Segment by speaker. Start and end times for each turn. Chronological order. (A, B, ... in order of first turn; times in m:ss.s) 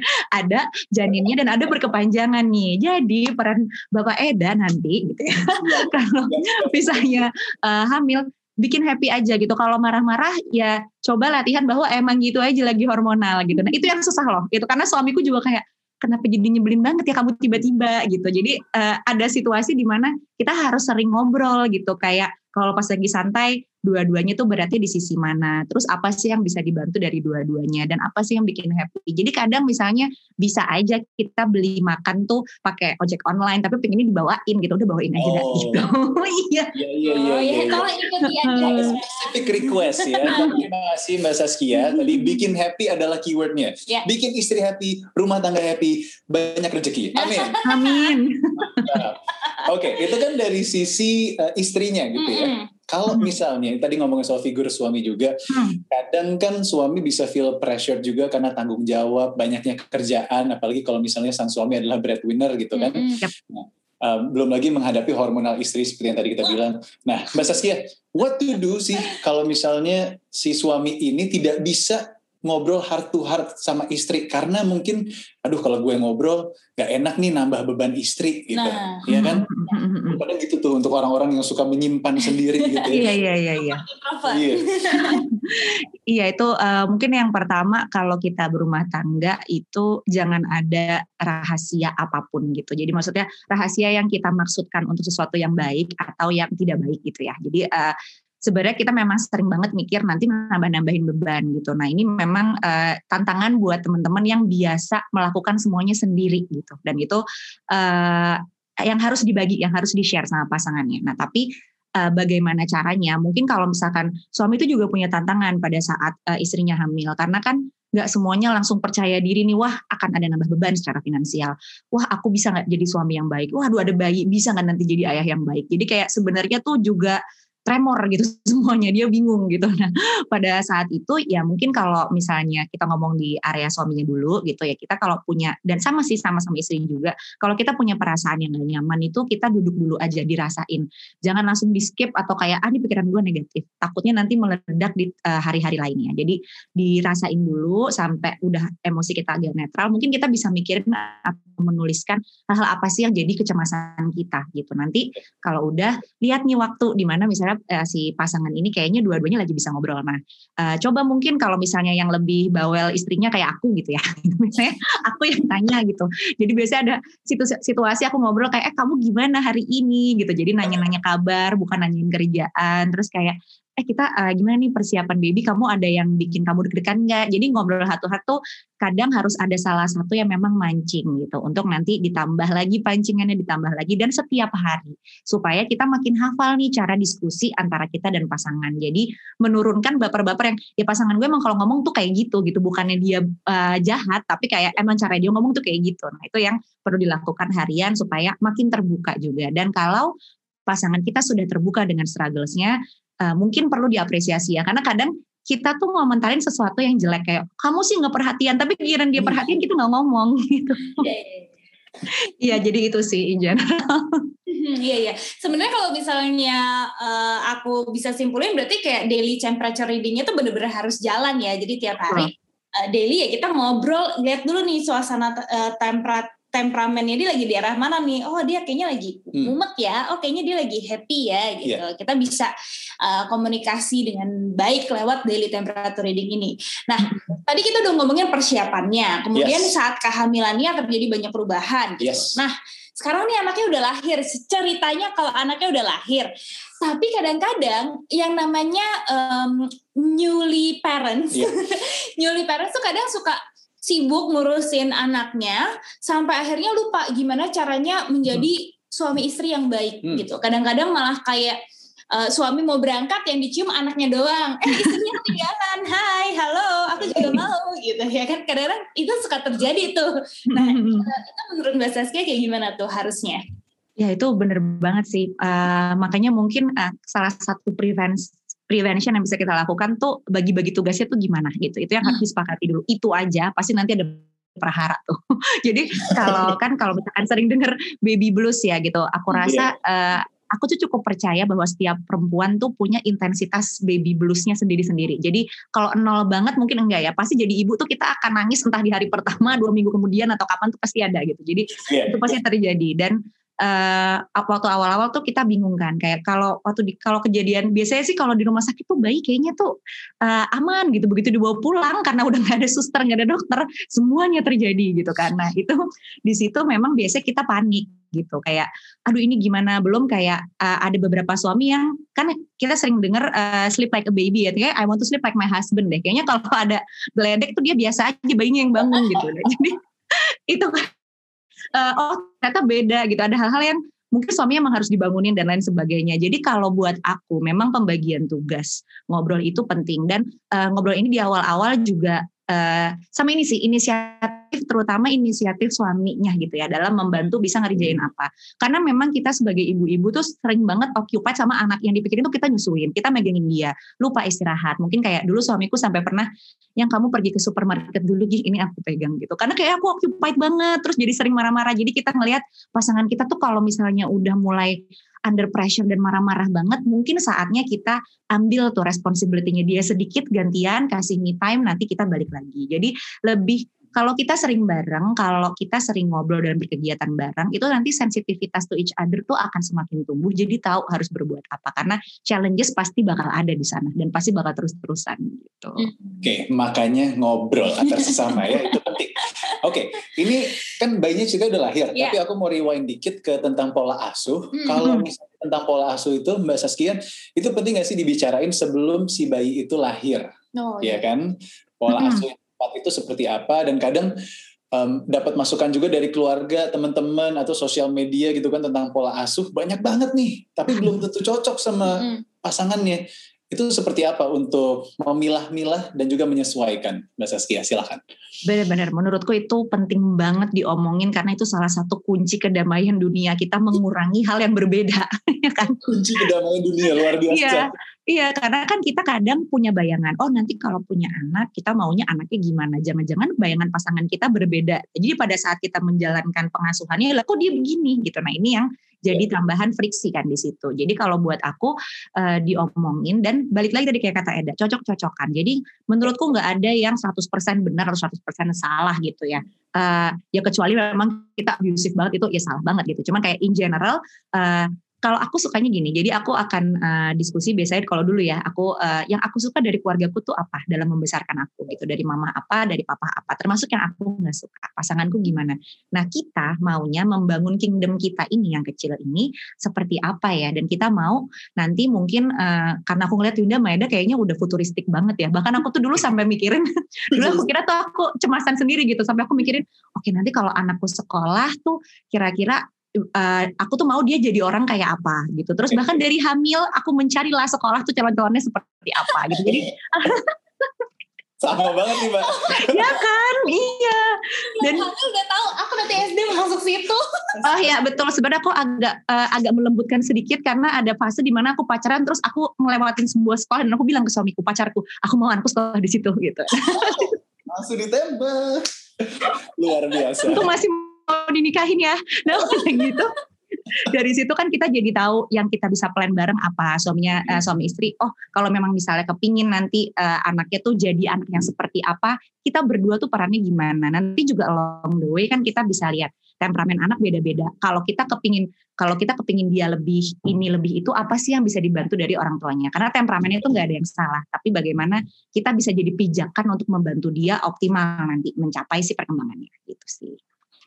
0:00.3-0:36.7 A
0:05.6-0:07.2 B
0:35.2-0:35.9 B
0:36.8-0:37.9 B
0:37.0-0:39.4 C
0:38.2-0:39.0 A
0:38.5-0:47.6 B
0:39.7-0:40.6 A
0:40.2-0:40.6 C
0:41.8-0:42.4 A
0:47.2-0:48.2 C
0:47.6-0:49.0 A
0:48.6-1:19.5 B
0:52.2-0:52.7 C
0:53.1-0:53.4 A
0:55.5-0:55.8 A
1:02.8-1:03.2 C
1:18.5-1:19.0 C
1:19.1-1:20.2 A
1:20.1-1:23.1 B
1:22.6-1:22.9 C
1:22.9-1:23.8 A
1:23.6-1:25.2 C
1:24.3-1:24.7 B
1:24.9-1:51.5 A
1:52.0-3:20.1 A
3:20.7-3:31.1 A
3:31.0-3:31.5 C
3:32.1-3:34.3 A
3:34.5-4:06.3 C
3:59.4-3:59.7 B
4:02.0-4:02.4 B
4:06.8-4:21.6 C
4:22.1-4:33.4 C
4:27.0-4:27.4 B
4:30.5-4:31.1 A
4:34.0-5:30.9 A
5:01.8-5:02.4 B
5:31.8-6:25.9 A
6:25.8-6:26.2 C
6:26.2-6:40.3 B
6:27.8-6:28.8 C
6:34.5-6:34.9 C
6:40.6-6:41.0 C
6:40.8-6:44.1 B
6:41.9-6:42.3 A
6:44.7-6:58.0 B
6:50.7-6:51.0 A
6:51.9-6:52.2 C
6:58.4-7:06.2 A
7:05.8-7:07.7 B
7:07.3-8:02.6 A
8:03.2-8:10.8 A
8:11.4-8:13.0 B
8:12.2-8:12.6 C
8:12.5-8:14.9 A
8:14.6-8:17.0 C
8:17.4-8:27.2 A
8:26.7-8:30.5 B
8:30.2-8:33.1 A
8:33.8-9:00.2 A